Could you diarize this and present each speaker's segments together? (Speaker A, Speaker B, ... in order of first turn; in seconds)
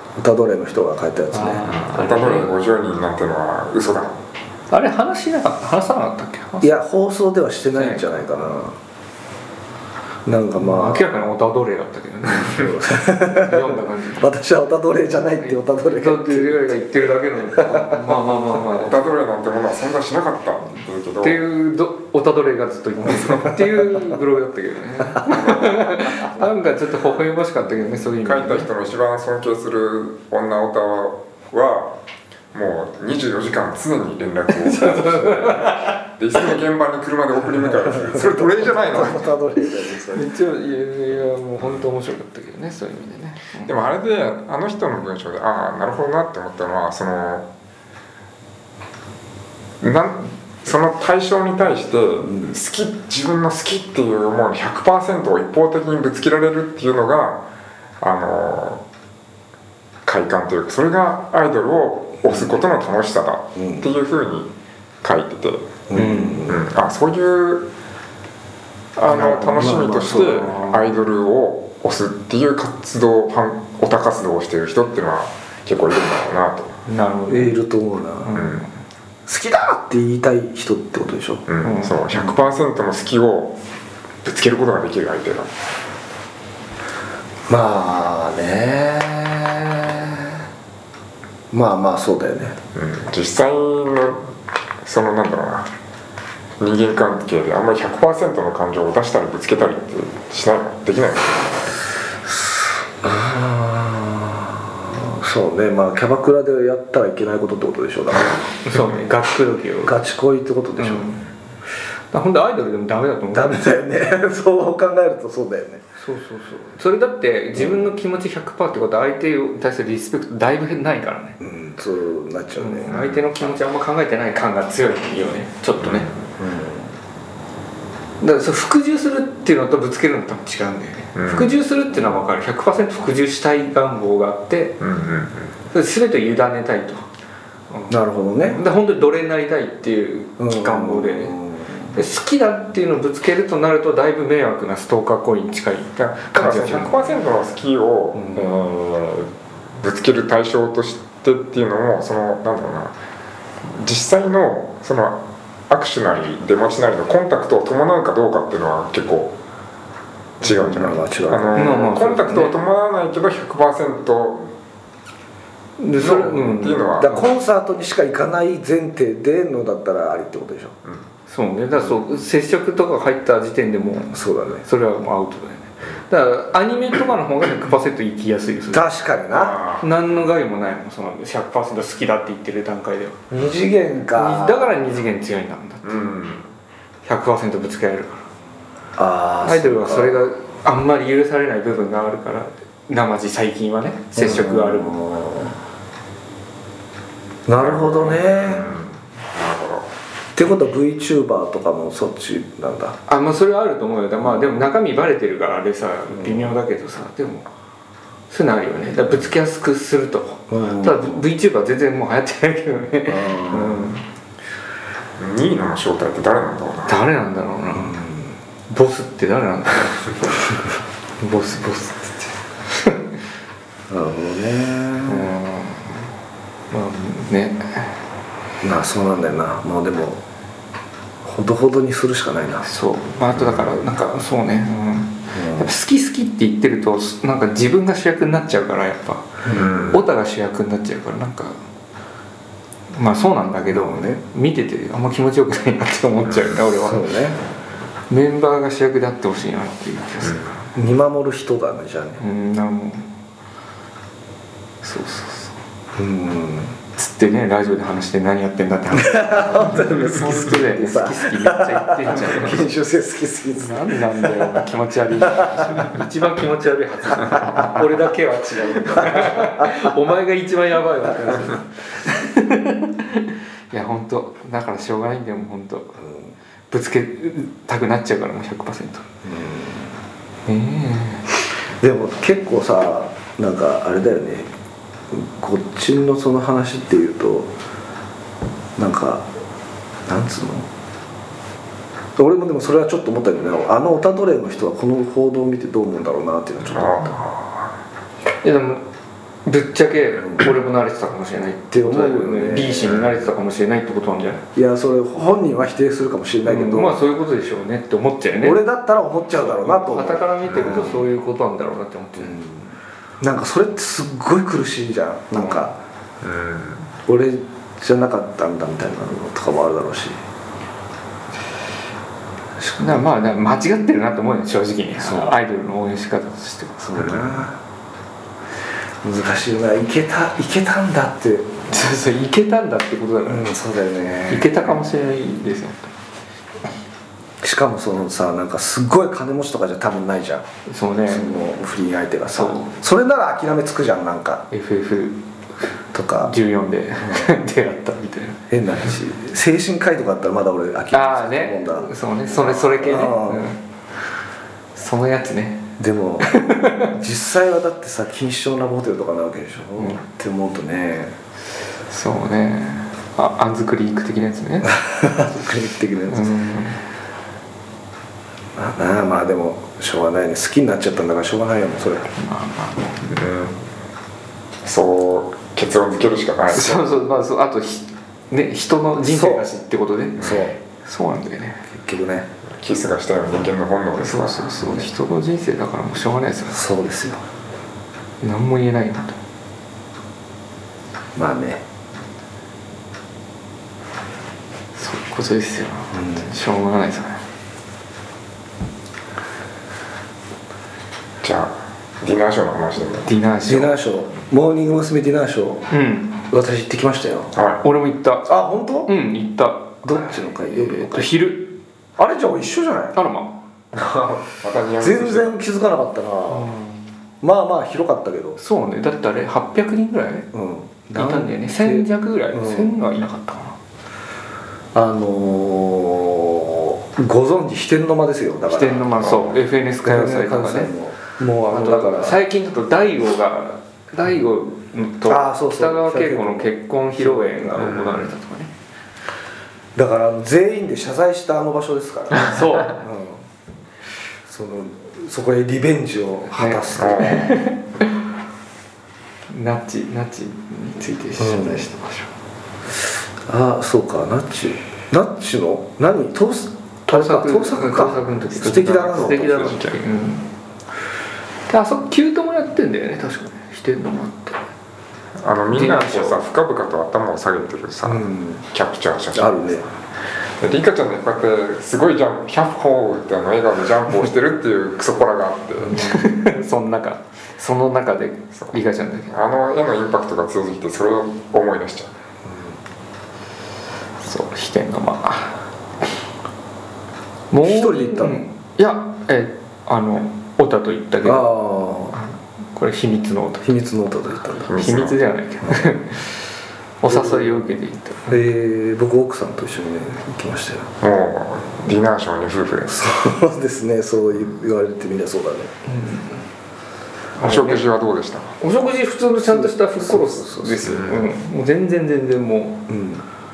Speaker A: 0.2-1.7, 6.6-8.8, 10.2-11.1, 12.3-16.8, 17.5-18.2, 23.2-23.6, 37.6-40.4, 52.3-52.5, 63.6-63.9, 65.9-66.6, 69.1-70.7, 77.3-78.4, 79.3-81.5, 87.5-90.4, 91.5-92.6, 102.3-108.6, 109.8-111.1, 113.3-115.8, 117.5-117.9, 121.4-123.0, 126.4-127.0, 137.9-138.6, 140.4-142.0, 160.4-161.9, 167.0-170.8, 174.1-174.7, 178.7-179.6, 183.3-184.8, 189.0-190.2, 194.2-195.6, 197.5-198.7, 200.3-203.0, 206.1-206.6, 210.5-211.2, 213.1-213.9, 217.7-218.4, 223.9-225.3, 228.6-230.2, 231.2-232.7, 235.3-235.7, 239.4-239.8, 243.7-244.2, 246.7-247.4, 250.8-252.2, 256.0-256.8, 258.9-266.0, 268.9-269.9, 276.0-276.3, 279.2-280.0, 281.8-284.5, 285.1-287.5, 288.8-289.3, 290.1-290.7, 292.2-297.2, 300.2-300.5, 301.7-303.0, 304.6-307.0, 308.4-311.0, 312.2-315.8, 317.1-320.2, 322.6-323.0, 325.0-325.4, 326.8-327.6, 329.0-331.7, 333.2-334.7, 337.4-340.5, 341.1-344.5, 345.9-346.3, 347.0-347.4, 348.5-353.5, 355.8-361.2, 364.8-366.4, 368.6-372.1, 379.1-379.5, 380.2-380.6, 381.7-382.3, 384.6-384.9, 386.5-387.2, 391.1-391.6, 395.9-396.3, 403.5-405.7, 406.3-407.3, 408.3-408.9, 409.8-411.2, 412.0-413.0, 414.8-416.5, 417.2-418.4, 420.3-422.8, 424.7-428.9, 429.8-432.2, 435.1-437.9, 439.8-443.2, 444.3-447.4, 451.2-451.7, 453.3-459.4, 467.9-468.5, 469.1-469.6, 482.2-482.6, 487.4-488.2, 491.0-492.0, 493.4-494.5, 495.4-495.8, 496.8-497.5, 498.1-500.7, 502.7-505.5, 509.2-510.8, 512.7-513.0
Speaker B: 1.3-2.5, 4.7-6.8, 7.7-8.4, 10.6-14.3, 15.4-19.0, 21.2-28.7, 34.5-36.0, 40.1-43.7, 65.9-66.5, 76.9-77.6, 78.2-78.7, 81.6-82.0, 108.6-110.0, 110.8-111.2, 112.1-113.8, 116.0-121.4, 122.6-126.1, 128.2-134.8, 135.7-137.1, 137.7-137.9, 138.5-141.4, 141.9-147.2, 161.6-162.6, 165.8-167.2, 171.3-178.9, 179.8-183.2, 184.2-185.9, 187.1-188.2, 189.4-195.0, 203.1-207.5, 208.3-214.0, 216.9-218.0, 218.7-220.6, 221.2-223.0, 225.1-226.1, 226.7-228.0, 232.7-241.6, 242.9-247.1, 248.1-250.7, 252.2-253.1, 254.8-255.6, 257.0-262.7, 263.6-276.0, 276.7-279.1, 280.5-281.3, 298.4-298.9, 299.4-304.4, 306.4-308.6, 309.3-312.4, 315.3-315.7, 322.8-327.2, 331.7-333.5, 334.3-335.9, 340.7-341.5, 342.3-342.7, 344.5-345.2, 346.2-348.4, 350.9-353.6, 354.8-356.9, 359.8-360.0, 361.9-364.8, 366.1-366.8, 372.1-373.1, 376.5-381.6, 384.0-386.6, 388.2-389.2, 394.8-397.2, 403.1-403.7, 405.7-406.2, 407.6-408.3, 408.9-411.6, 412.9-413.4, 416.3-416.9, 418.4-420.3, 420.9-423.6, 428.5-430.7, 431.5-438.5, 442.1-442.8, 446.3-447.9, 449.3-452.1, 456.9-460.3, 461.5-464.5, 465.5-466.3, 475.7-479.1, 484.0-485.4, 487.3-491.3, 491.9-493.5, 494.5-496.3, 496.8-498.2, 505.7-506.2, 507.2-507.7, 508.4-512.6
Speaker C: 1.6-4.2, 18.6-21.4, 25.2-26.3, 28.2-31.9, 32.5-39.3, 43.6-47.5, 49.8-57.4, 58.0-58.8, 60.1-64.5, 65.0-65.8, 66.5-67.7, 69.0-76.8, 78.3-78.7, 81.5-83.6, 84.2-85.5, 92.8-94.3, 94.8-95.7, 96.6-101.8, 122.9-123.2, 125.8-126.1, 131.2-131.6, 134.8-135.5, 146.0-152.9, 153.6-159.4, 160.4-164.5, 166.0-167.2, 179.3-179.8, 185.8-186.5, 197.6-199.9, 215.2-217.0, 233.3-233.8, 239.5-240.0, 246.3-246.6, 296.6-297.7, 316.2-316.9, 373.1-373.6, 374.6-376.9, 382.5-384.6, 401.2-403.1, 407.3-407.6, 413.7-415.3, 429.0-429.4, 437.6-438.0, 446.8-447.4, 458.4-459.8, 465.2-469.6, 470.4-475.9, 479.1-481.9, 494.5-495.0, 500.8-502.9, 507.2-508.4, 510.6-511.1